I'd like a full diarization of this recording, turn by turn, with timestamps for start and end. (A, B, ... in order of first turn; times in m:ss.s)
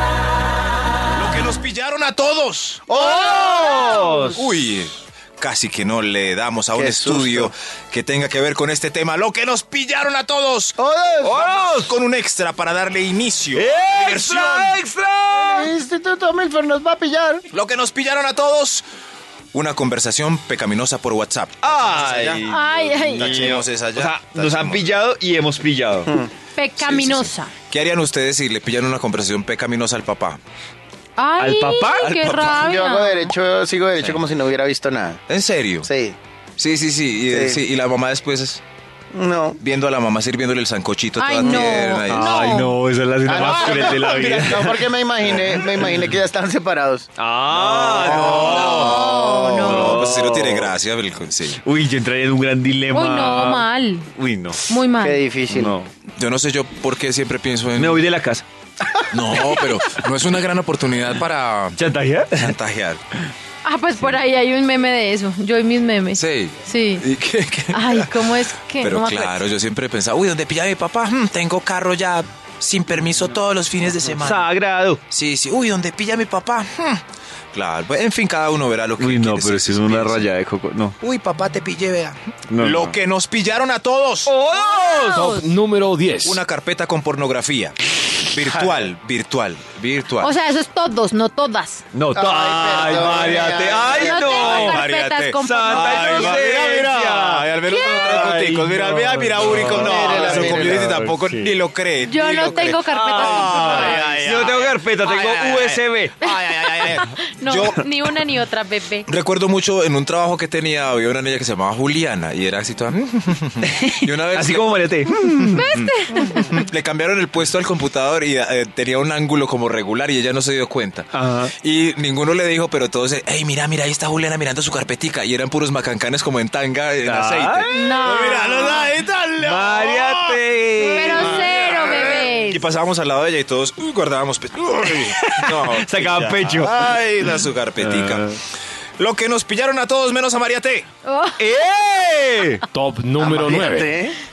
0:01.1-0:03.3 A
0:02.9-0:04.4 B
0:03.0-0:04.5 C
0:04.0-0:14.8 A
0:06.7-0:07.5 B
0:10.8-0:11.4 B
0:11.2-0:12.0 C
0:13.5-0:15.7 C
0:15.3-0:17.4 B
0:17.5-0:18.8 A
0:19.5-0:22.4 A
0:21.6-0:26.1 C
0:22.5-0:23.6 D
0:23.1-0:24.9 A
0:26.6-0:27.5 D
0:26.8-0:30.4 A
0:31.2-0:33.3 D
0:31.4-0:32.2 C
0:32.0-0:32.6 A
0:32.5-0:35.2 B
0:35.3-0:35.9 A
0:35.8-0:36.2 B
0:36.6-0:38.6 A
0:37.3-0:37.6 B
0:39.1-0:39.6 B
0:39.6-0:42.7 A
0:41.2-0:42.8 D
0:42.1-0:45.8 C
0:43.2-0:47.1 B
0:43.5-0:44.0 A
0:47.2-0:49.1 C
0:47.5-0:51.6 A
0:48.0-0:49.6 B
0:48.4-0:50.0 D
0:49.6-0:50.7 C
0:51.6-0:54.6 C
0:52.9-0:54.1 D
0:54.6-0:55.2 D
0:55.0-0:55.8 B
0:55.5-0:55.9 C
0:56.2-0:58.1 A
0:57.8-0:58.4 C
0:59.1-1:01.8 A
1:01.8-1:02.5 C
1:02.3-1:03.0 A
1:03.6-1:07.0 D
1:06.1-1:08.1 A
1:07.7-1:09.3 D
1:08.8-1:14.5 A
1:14.2-1:15.0 C
1:15.1-1:17.0 A
1:17.5-1:20.3 A
1:19.0-1:21.0 C
1:21.0-1:24.3 A
1:22.5-1:23.0 C
1:24.2-1:25.4 C
1:24.5-1:25.4 D
1:25.0-1:26.4 E
1:26.2-1:27.8 A
1:28.3-1:30.3 A
1:30.2-1:31.8 D
1:31.9-1:34.8 C
1:32.1-1:34.4 B
1:32.8-1:48.1 A
1:33.7-1:36.4 D
1:35.4-1:41.6 C
1:37.7-1:38.2 D
1:39.7-1:40.8 B
1:42.0-1:44.1 D
1:42.8-1:46.1 C
1:46.2-1:49.1 D
1:49.0-2:18.4 A
1:53.7-1:55.5 C
1:55.5-1:56.6 D
2:01.1-2:01.5 C
2:07.0-2:07.7 C
2:07.7-2:08.9 D
2:09.4-2:11.5 C
2:10.9-2:12.6 D
2:15.0-2:17.0 C
2:17.8-2:18.4 C
2:19.0-2:20.9 A
2:21.0-2:21.4 D
2:21.4-2:22.6 C
2:22.7-2:23.9 E
2:23.2-2:24.2 B